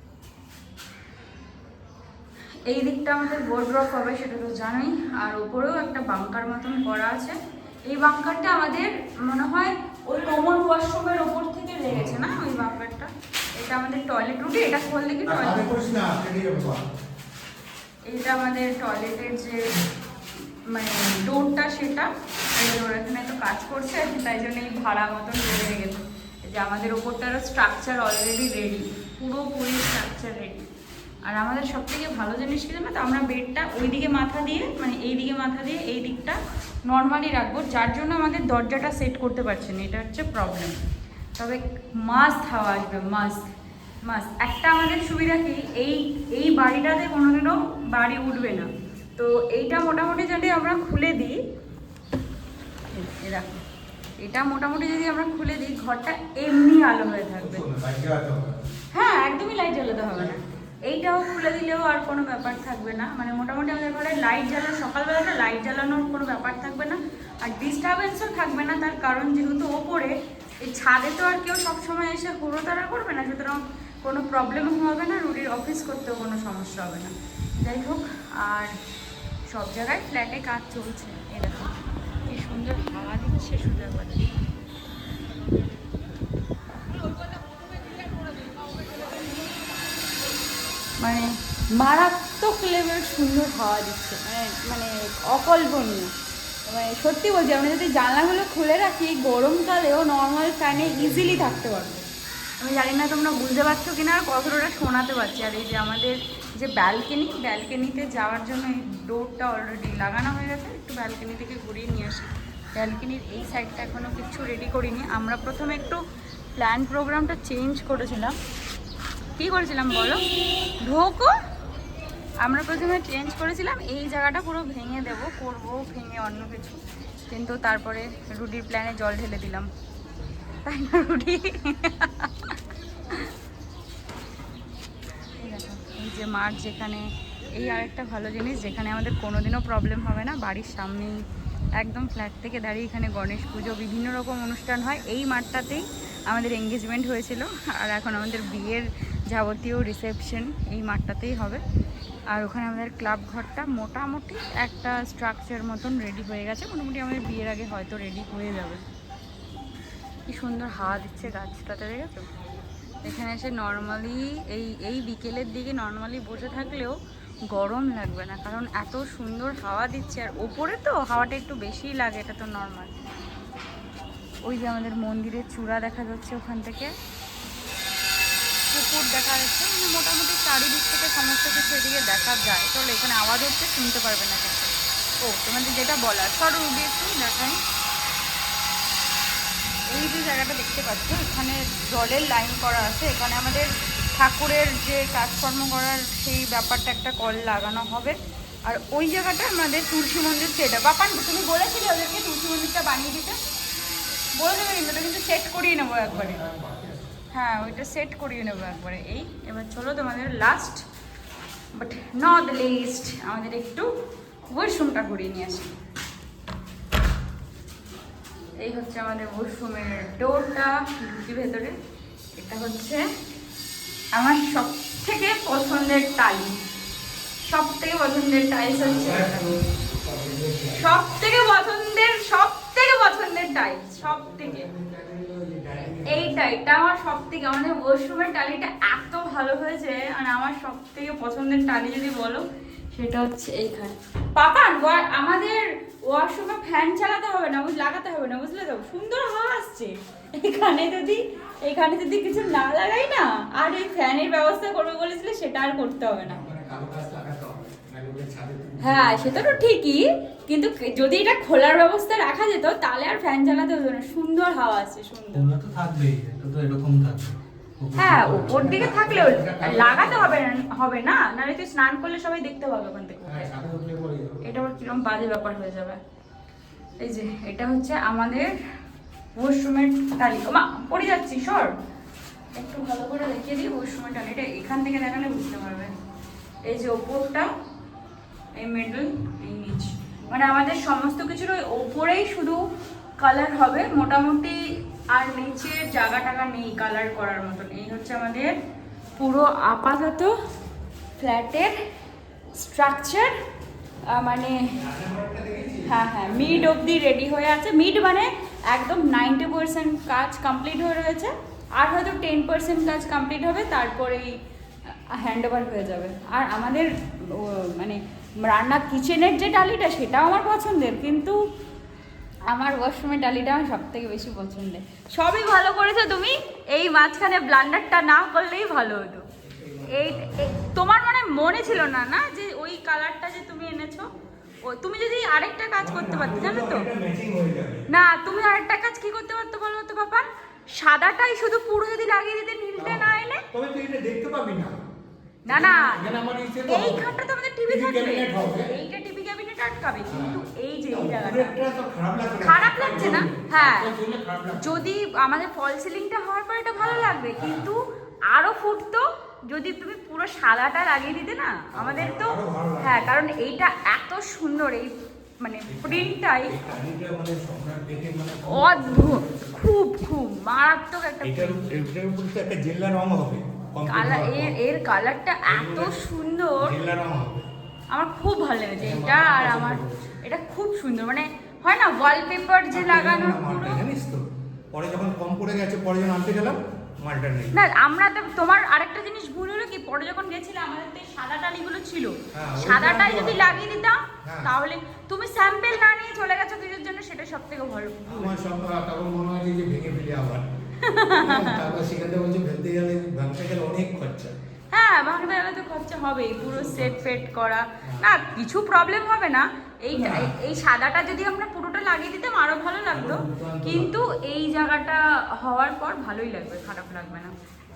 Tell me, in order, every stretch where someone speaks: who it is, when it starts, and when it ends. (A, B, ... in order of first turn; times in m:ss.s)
0:02.7-0:15.7 A
0:11.9-0:12.4 B
0:15.2-0:16.8 B
0:18.1-0:19.7 A
0:20.6-0:30.7 A
0:31.2-0:40.8 A
0:41.4-0:43.5 A
0:44.0-0:51.4 A
0:52.9-0:53.6 A
0:54.2-0:57.6 A
0:57.4-0:58.6 B
0:58.9-1:18.7 A
1:19.5-1:21.7 A
1:22.2-1:24.3 A
1:31.0-1:36.1 A
1:36.6-1:42.1 A
1:40.7-1:41.6 B
1:42.6-1:56.0 A
1:56.6-1:58.4 A
1:59.4-2:00.2 A
2:00.8-2:01.3 A
2:02.4-2:09.7 A
2:10.6-2:12.6 A
2:15.4-2:21.2 A
2:21.8-2:31.6 A
2:32.3-2:38.8 A
2:40.3-2:42.3 A
2:43.0-2:47.0 A
2:47.5-2:52.9 A
2:54.4-2:56.9 A
2:58.7-3:07.6 A
3:09.9-3:23.4 A
3:24.4-3:26.4 A
3:26.0-3:27.2 B
3:27.3-3:30.8 A
3:31.7-3:33.9 A
3:34.5-3:35.8 A
3:38.6-3:41.8 A
3:42.4-3:43.1 A
3:44.1-3:46.6 A
3:47.4-3:49.5 A
3:48.7-3:51.2 B
3:50.7-3:54.7 A
3:54.2-3:56.3 B
3:56.0-4:16.4 A
4:16.2-4:19.7 B
4:18.8-4:25.4 A
4:25.3-4:28.6 C
4:28.0-4:33.5 A
4:28.4-4:30.4 B
4:33.2-4:34.6 B
4:34.4-4:36.0 A
4:37.0-4:38.5 A
4:39.4-4:41.7 A
4:42.5-4:45.9 A
4:46.6-4:47.5 A
4:48.6-4:52.6 A
4:53.2-4:58.5 A
4:59.2-5:00.4 A
5:01.2-5:01.8 A
5:02.5-5:03.4 A
5:04.0-5:04.7 A
5:04.7-5:06.8 B
5:05.8-5:14.3 A
5:14.9-5:21.4 A
5:22.5-5:29.2 A
5:29.4-5:30.5 B
5:29.9-5:34.1 A
5:34.6-5:36.9 A
5:35.8-5:37.9 B
5:37.9-5:43.4 A
5:42.8-5:44.8 B
5:45.5-5:46.0 A
5:45.5-5:47.1 B
5:46.6-5:51.6 A
5:47.7-5:48.7 B
5:50.1-5:54.9 B
5:52.4-5:53.9 A
5:54.6-6:06.6 A
5:56.8-5:57.7 B
6:01.7-6:03.1 B
6:05.7-6:09.6 B
6:08.5-6:11.6 A
6:11.2-6:14.6 B
6:13.9-6:16.7 A
6:15.5-6:16.0 B
6:16.6-6:17.5 B
6:17.9-6:23.8 A
6:18.8-6:20.2 B
6:22.7-6:27.6 B
6:27.5-6:38.4 A
6:32.3-6:33.4 B
6:34.2-6:34.5 B
6:38.1-6:40.5 B
6:40.8-6:41.7 A
6:41.1-6:44.3 B
6:44.7-6:57.3 A
6:46.4-6:47.0 B
6:49.9-6:50.3 B
6:52.9-6:53.9 B